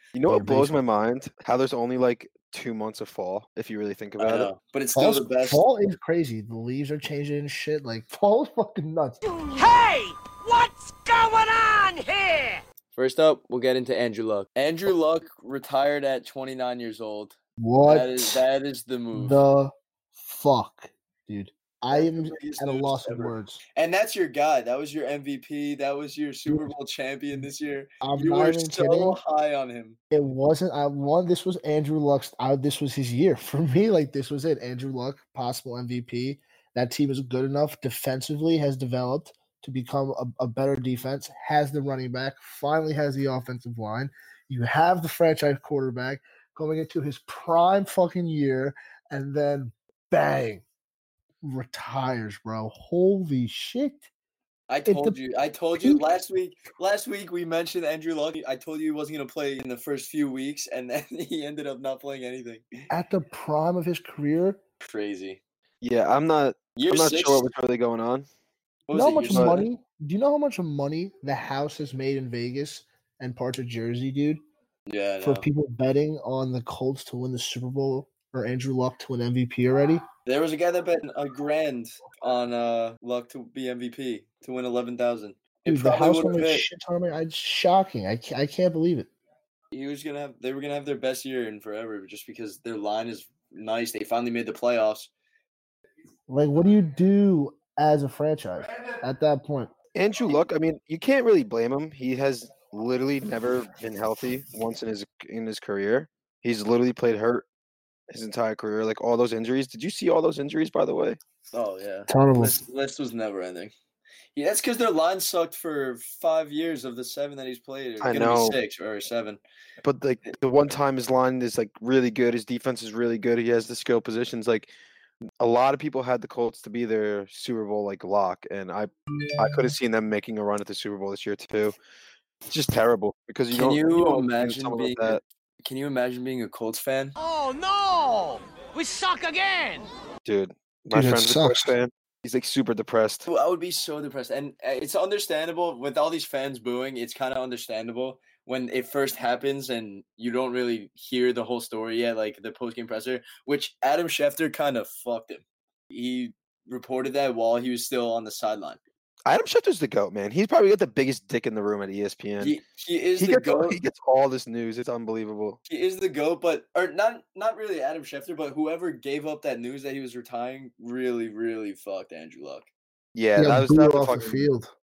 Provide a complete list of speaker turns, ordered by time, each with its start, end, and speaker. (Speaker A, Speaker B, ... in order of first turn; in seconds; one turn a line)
Speaker A: 0.1-4.5
Speaker B: 0.3-0.8
Speaker C: 4.2-5.6
Speaker B: 5.0-9.2
Speaker D: 9.2-12.6
Speaker C: 13.0-19.4
Speaker B: 17.6-18.4
Speaker B: 19.1-23.6
Speaker C: 21.9-30.0
Speaker B: 28.0-29.2
Speaker B: 30.1-50.6
Speaker B: 51.4-54.1
Speaker C: 54.7-62.7
Speaker B: 54.9-55.2
Speaker B: 62.9-64.6
Speaker C: 64.8-65.4
Speaker A: 65.8-68.3
Speaker C: 66.8-67.5
Speaker C: 68.9-69.7
Speaker B: 68.9-74.4
Speaker A: 69.3-69.6
Speaker C: 74.9-75.5
Speaker B: 75.2-80.0
Speaker C: 80.3-86.7
Speaker B: 85.7-89.1
Speaker C: 89.7-95.1
Speaker B: 96.3-99.7
Speaker A: 100.0-107.5
Speaker A: 108.1-111.2
Speaker C: 111.5-113.7
Speaker B: 112.1-112.6
Speaker C: 114.3-119.4
Speaker A: 118.0-118.6
Speaker A: 119.8-124.7
Speaker A: 125.4-131.8
Speaker A: 132.5-135.2
Speaker C: 133.5-137.1
Speaker D: 137.2-139.9
Speaker A: 140.2-143.2
Speaker B: 140.9-141.7
Speaker C: 143.3-158.8
Speaker A: 159.3-162.6
Speaker C: 162.4-163.8
Speaker A: 163.2-165.6
Speaker C: 165.7-172.7
Speaker A: 173.2-174.5
Speaker B: 173.4-174.7